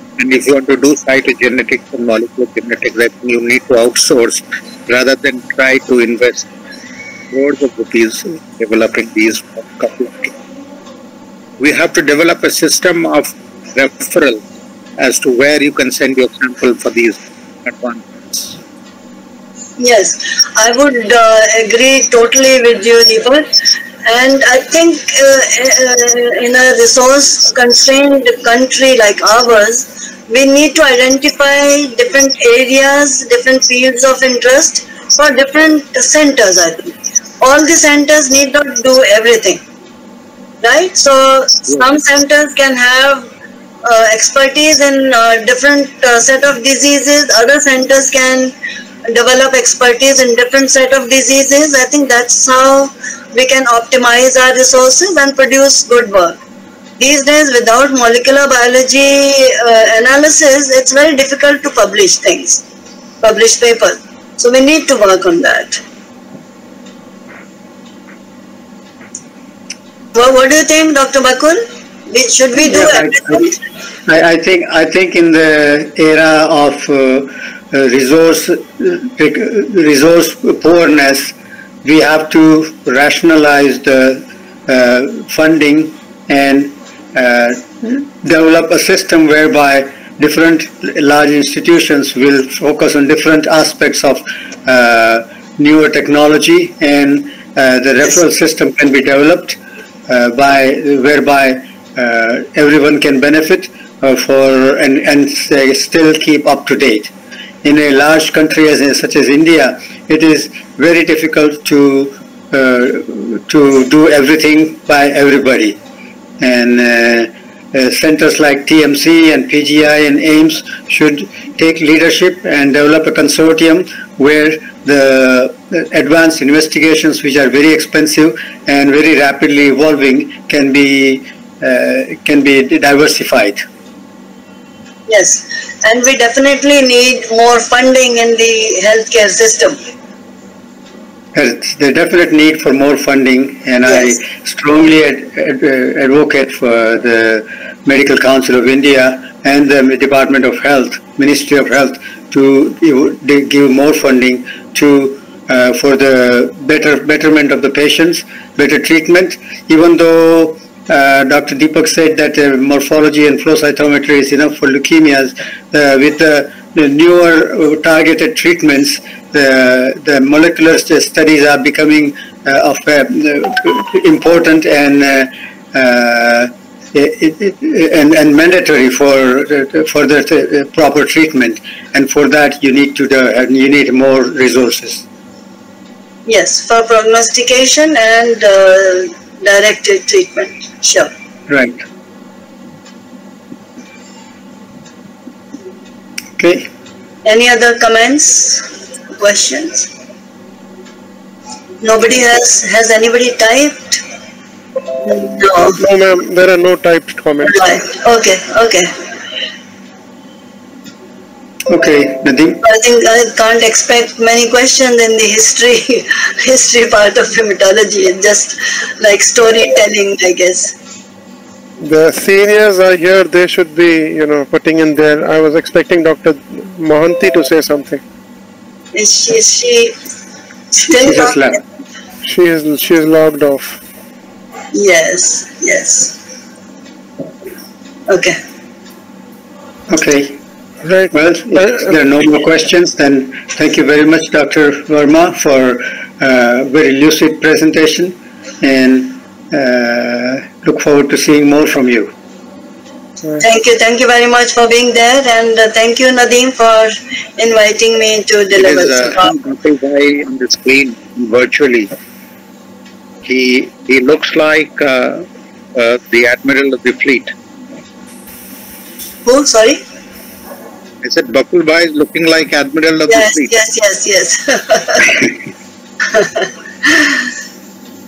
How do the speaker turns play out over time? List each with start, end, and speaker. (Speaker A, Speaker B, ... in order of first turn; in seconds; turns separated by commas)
Speaker A: 0.2-6.5, Speaker A: 7.3-10.3, Speaker A: 11.6-14.4, Speaker A: 15.0-18.6, Speaker B: 19.8-39.6, Speaker B: 40.6-43.3, Speaker B: 43.8-48.5, Speaker B: 49.1-56.4, Speaker B: 57.0-62.6, Speaker B: 63.2-65.8, Speaker B: 70.1-73.5, Speaker C: 72.6-73.5, Speaker C: 74.1-107.1, Speaker C: 107.6-115.8, Speaker C: 116.4-133.6, Speaker B: 135.1-139.8, Speaker C: 141.3-185.0, Speaker B: 143.9-144.2, Speaker B: 186.2-191.1, Speaker C: 191.5-191.8, Speaker C: 196.4-196.7, Speaker B: 197.2-199.9, Speaker B: 201.8-204.0, Speaker B: 205.0-205.8, Speaker D: 205.8-207.6, Speaker B: 207.4-208.9, Speaker C: 211.7-212.6, Speaker B: 212.6-220.7, Speaker D: 221.8-228.0, Speaker B: 228.9-229.9, Speaker B: 230.7-231.4, Speaker C: 231.0-231.6, Speaker D: 232.2-233.8, Speaker B: 234.7-236.2, Speaker B: 238.1-238.4, Speaker C: 239.9-240.4, Speaker D: 240.8-241.9, Speaker C: 241.1-252.1, Speaker B: 253.4-259.3, Speaker A: 258.6-261.9, Speaker A: 263.2-267.3, Speaker B: 269.2-269.8, Speaker A: 271.0-273.5, Speaker B: 273.1-275.2, Speaker B: 276.1-277.2